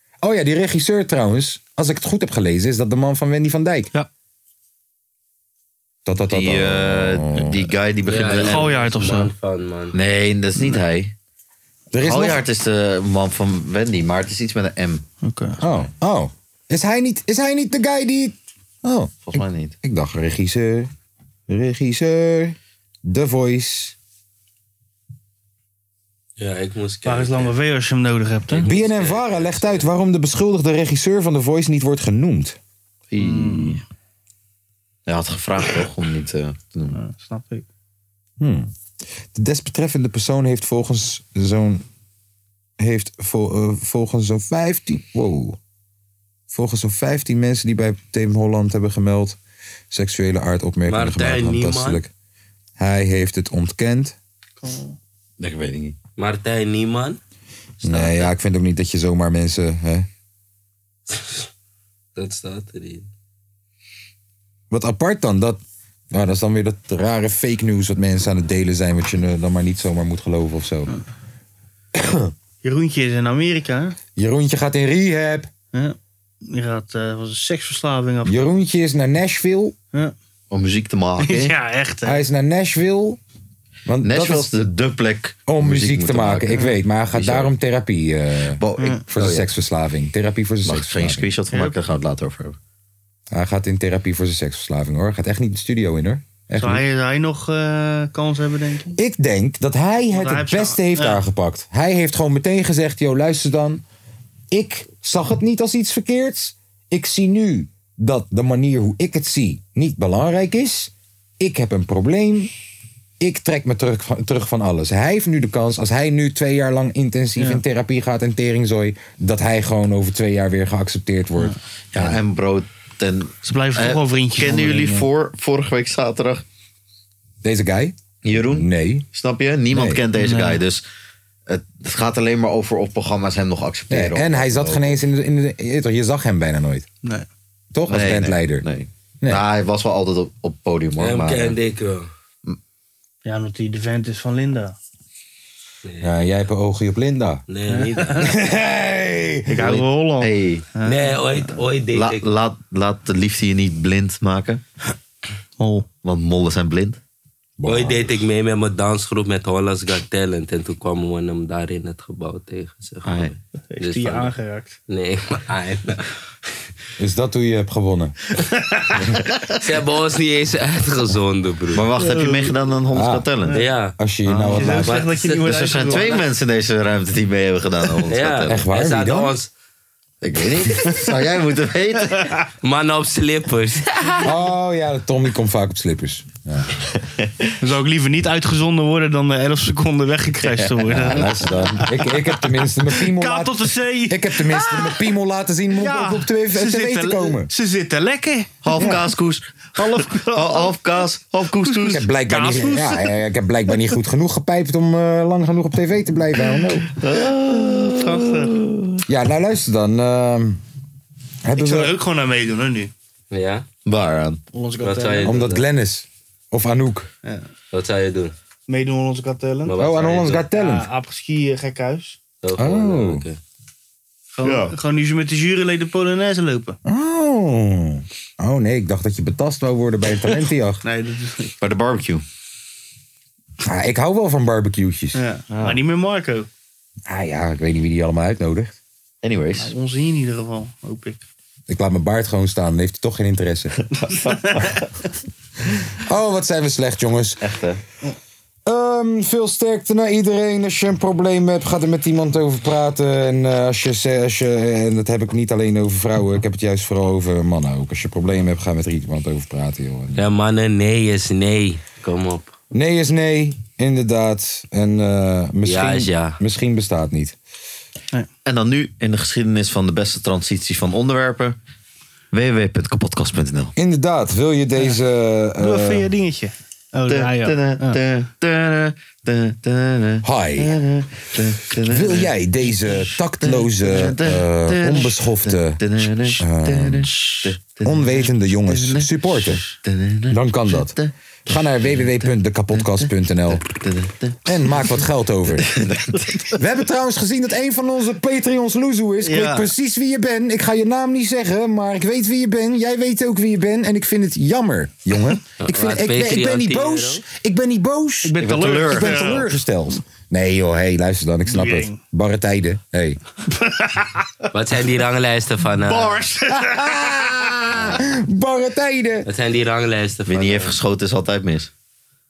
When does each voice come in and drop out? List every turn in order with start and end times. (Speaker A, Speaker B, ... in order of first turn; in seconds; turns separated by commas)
Speaker A: 0.2-3.9, Speaker A: 6.0-7.7, Speaker B: 6.3-8.7, Speaker C: 8.1-9.9, Speaker D: 8.4-9.3, Speaker B: 9.9-11.1, Speaker A: 11.9-12.4, Speaker B: 12.0-15.0, Speaker D: 15.2-15.6, Speaker A: 15.6-20.9, Speaker B: 19.2-19.7, Speaker A: 21.5-23.9, Speaker C: 26.4-27.5, Speaker D: 27.0-28.7, Speaker C: 28.5-29.9, Speaker A: 28.5-32.6, Speaker B: 33.1-33.8, Speaker D: 33.2-33.8, Speaker B: 35.1-37.0, Speaker D: 36.9-37.6, Speaker A: 38.4-38.7, Speaker A: 39.3-41.8, Speaker A: 42.8-45.6, Speaker A: 46.5-49.4, Speaker A: 49.9-52.1, Speaker C: 50.9-52.0, Speaker A: 52.8-54.1, Speaker D: 54.6-55.0, Speaker B: 55.4-56.0, Speaker C: 56.2-57.2, Speaker C: 57.8-58.3, Speaker A: 57.8-60.1, Speaker C: 62.1-63.1, Speaker A: 64.7-70.9, Speaker A: 71.9-72.3, Speaker D: 72.6-74.0, Speaker A: 74.2-75.5, Speaker D: 75.7-78.4, Speaker A: 78.2-79.8, Speaker B: 80.5-81.5, Speaker D: 81.2-82.2, Speaker A: 82.0-83.2, Speaker A: 83.8-84.5, Speaker B: 84.0-86.6, Speaker A: 85.5-91.3, Speaker B: 87.1-87.5, Speaker B: 88.6-89.4, Speaker B: 90.6-92.6, Speaker A: 93.3-96.8, Speaker D: 96.5-99.0, Speaker A: 99.0-103.8, Speaker D: 100.1-101.2, Speaker A: 104.5-112.5, Speaker A: 113.2-122.2, Speaker B: 121.9-126.4, Speaker D: 123.4-125.0, Speaker A: 127.4-129.1, Speaker B: 128.2-130.8, Speaker A: 129.7-130.0, Speaker D: 130.1-130.6, Speaker B: 131.5-135.0, Speaker A: 133.9-136.9, Speaker A: 137.7-138.6, Speaker B: 137.9-141.6, Speaker C: 141.0-142.1, Speaker D: 143.2-144.7, Speaker C: 145.8-146.2, Speaker A: 146.0-147.4, Speaker C: 147.5-148.3, Speaker D: 147.7-148.3, Speaker A: 148.2-149.7, Speaker D: 149.5-151.2, Speaker B: 149.5-150.7, Speaker C: 150.8-152.2, Speaker B: 151.9-154.6, Speaker D: 155.6-155.8, Speaker B: 156.0-157.0, Speaker A: 157.6-158.1, Speaker C: 157.7-164.3, Speaker B: 163.0-163.3, Speaker D: 163.7-164.8, Speaker C: 164.9-166.1, Speaker A: 167.0-168.1, Speaker C: 169.5-171.8, Speaker B: 171.7-173.6, Speaker D: 172.0-172.5, Speaker A: 172.9-173.3, Speaker C: 173.5-173.9, Speaker A: 174.0-175.0, Speaker D: 174.3-176.2, Speaker C: 174.6-176.2, Speaker B: 175.4-178.6, Speaker C: 178.1-179.5, Speaker A: 178.5-179.3, Speaker B: 180.2-182.1, Speaker C: 182.6-184.2, Speaker A: 184.2-186.7, Speaker B: 187.2-187.5, Speaker D: 187.6-192.3, Speaker B: 190.4-191.3, Speaker A: 190.9-197.5, Speaker D: 192.9-195.1, Speaker D: 195.7-198.9, Speaker B: 198.6-202.0, Speaker A: 198.7-199.0, Speaker D: 199.8-200.8, Speaker D: 201.6-203.1, Speaker A: 201.8-206.9, Speaker B: 206.9-209.0, Speaker D: 207.7-208.5, Speaker A: 209.1-210.6, Speaker A: 211.4-211.9, Speaker D: 211.6-212.9, Speaker C: 213.3-213.7, Speaker B: 213.8-214.4, Speaker D: 214.5-215.4, Speaker C: 214.8-215.6, Speaker A: 215.2-217.1, Speaker C: 217.7-218.3, Speaker D: 218.7-219.7, Speaker C: 219.7-220.4, Speaker A: 219.8-220.9, Speaker D: 220.4-222.2, Speaker C: 222.4-223.4, Speaker A: 222.6-223.2, Speaker D: 224.3-226.8, Speaker B: 224.4-224.7, Speaker A: 226.8-230.8, Speaker D: 230.8-231.5, Speaker B: 231.6-232.2, Speaker A: 233.6-235.2, Speaker D: 235.1-236.5, Speaker B: 235.5-235.8, Speaker A: 237.1-238.7, Speaker B: 239.2-239.7, Speaker D: 239.6-241.2, Speaker A: 241.7-243.7, Speaker B: 243.9-244.8, Speaker D: 244.3-244.8, Speaker A: 246.0-247.5, Speaker B: 247.4-247.8, Speaker A: 248.6-260.2, Speaker C: 260.1-262.5, Speaker A: 262.7-267.4, Speaker C: 265.6-266.4, Speaker B: 268.4-271.6, Speaker B: 272.3-273.7, Speaker A: 273.8-276.1, Speaker D: 275.6-278.0, Speaker B: 277.1-291.1, Speaker A: 280.2-280.7, Speaker A: 281.9-285.8, Speaker A: 286.4-287.1, Speaker A: 287.8-289.6, Speaker A: 290.3-290.9, Speaker A: 291.5-293.6, Speaker B: 292.7-294.4, Speaker A: 294.4-295.7, Speaker B: 295.6-296.6, Speaker A: 296.6-313.2, Speaker D: 299.2-299.7, Speaker C: 305.6-307.2, Speaker D: 308.2-309.5, Speaker B: 308.4-309.5, Speaker D: 311.5-312.0, Speaker D: 313.5-314.2, Speaker C: 314.5-316.2, Speaker D: 315.9-317.9, Speaker A: 316.5-319.3, Speaker C: 319.2-320.8, Speaker B: 320.3-321.7